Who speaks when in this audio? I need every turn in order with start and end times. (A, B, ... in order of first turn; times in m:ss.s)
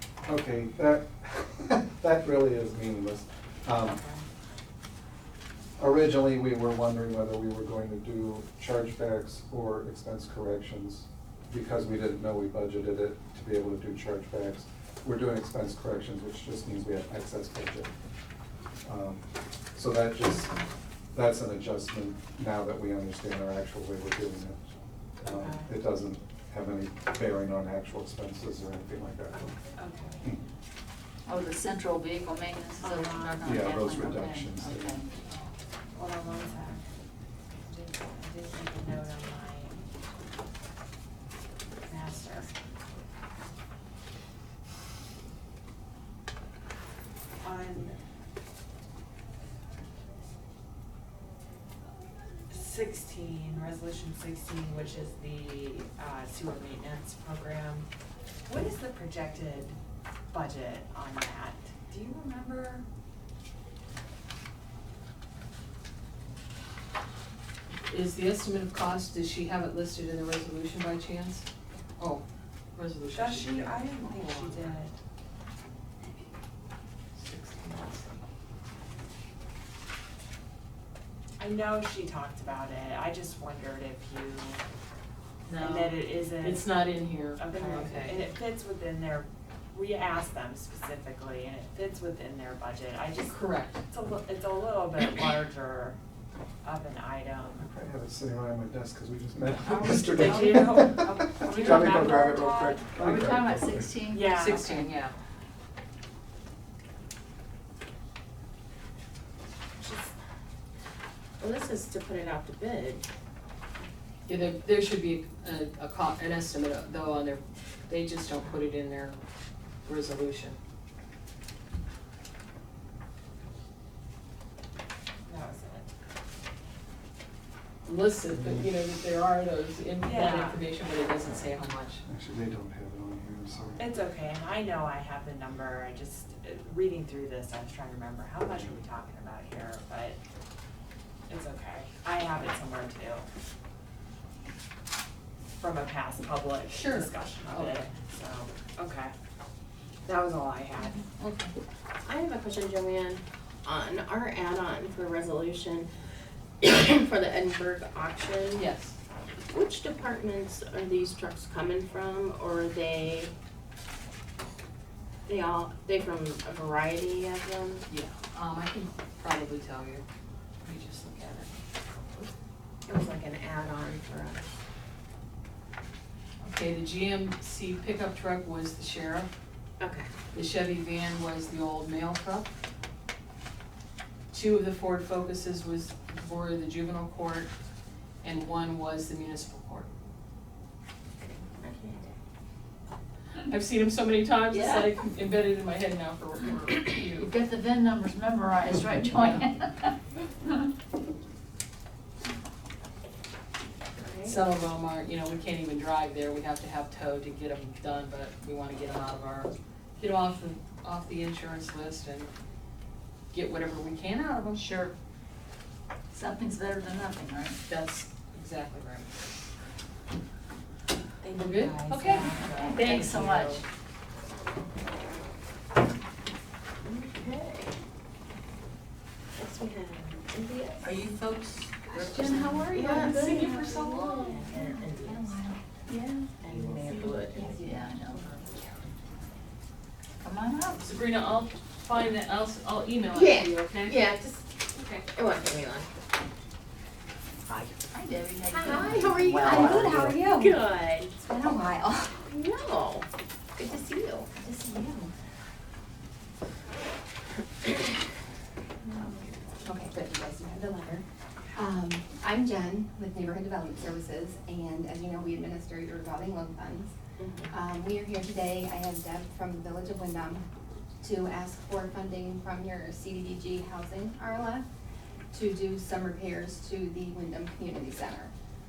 0:00.3-0:04.0 A
0:03.8-0:04.2 B
0:05.8-0:17.9 A
0:18.8-0:20.6 A
0:21.1-0:29.6 A
0:25.2-0:25.7 B
0:29.8-0:30.3 B
0:31.3-0:35.2 C
0:32.8-0:33.6 B
0:33.4-0:35.0 A
0:35.9-0:36.8 B
0:37.6-0:39.8 B
0:41.9-0:42.5 B
0:47.4-0:48.0 B
0:52.5-0:57.9 B
0:58.5-0:59.8 B
1:00.3-1:02.8 B
1:07.9-1:11.4 D
1:12.0-1:12.2 D
1:12.8-1:14.8 D
1:13.1-1:15.0 B
1:17.2-1:18.1 D
1:21.4-1:24.6 B
1:25.5-1:28.3 D
1:25.6-1:26.7 B
1:27.4-1:36.0 B
1:33.3-1:33.8 D
1:36.6-1:37.6 B
1:37.6-1:44.0 A
1:39.6-1:42.9 B
1:41.5-1:41.8 D
1:43.0-1:44.9 C
1:44.1-1:44.7 B
1:44.3-1:45.1 D
1:49.8-1:50.1 E
1:51.4-1:53.0 E
1:54.3-1:59.2 D
1:59.8-2:00.6 D
2:05.3-2:05.9 B
2:07.9-2:12.0 D
2:08.3-2:08.7 A
2:10.0-2:10.6 B
2:12.1-2:13.9 A
2:13.8-2:20.2 B
2:21.3-2:23.3 B
2:25.6-2:29.1 B
2:26.7-2:27.8 D
2:30.1-2:31.0 B
2:31.1-2:31.5 D
2:32.0-2:35.9 E
2:36.6-2:38.6 E
2:38.6-2:38.9 D
2:39.5-2:43.3 E
2:45.3-2:47.8 E
2:47.9-2:50.0 D
2:50.6-2:51.6 D
2:52.9-2:54.5 E
2:56.4-2:59.3 D
2:59.8-3:00.1 E
3:00.3-3:02.5 D
3:04.3-3:07.5 D
3:08.2-3:09.9 D
3:11.6-3:12.1 E
3:13.5-3:17.3 D
3:14.5-3:14.9 C
3:17.2-3:19.9 C
3:24.0-3:24.4 E
3:24.2-3:32.3 D
3:33.3-3:34.7 D
3:34.6-3:34.9 C
3:36.1-3:37.6 C
3:37.7-3:39.1 D
3:41.2-3:42.6 E
3:41.4-3:43.6 D
3:42.1-3:43.4 B
3:42.1-3:43.6 C
3:46.8-3:47.8 E
3:49.4-3:51.0 E
3:50.8-3:53.4 C
3:51.9-3:55.5 E
3:52.8-3:54.4 D
3:52.9-3:55.6 F
3:55.9-3:58.4 C
3:56.4-3:57.5 E
4:00.2-4:00.8 C
4:00.8-4:04.0 D
4:03.1-4:04.5 E
4:04.8-4:05.0 D
4:05.1-4:05.9 E
4:07.5-4:10.2 C
4:08.5-4:11.2 E
4:09.4-4:10.6 F
4:11.1-4:12.3 F
4:12.3-4:14.3 E
4:14.3-4:15.1 F
4:19.6-4:21.0 F
4:21.6-4:26.9 F
4:27.2-4:27.6 E
4:27.5-4:30.5 F
4:31.0-4:34.7 F
4:35.3-4:38.3 F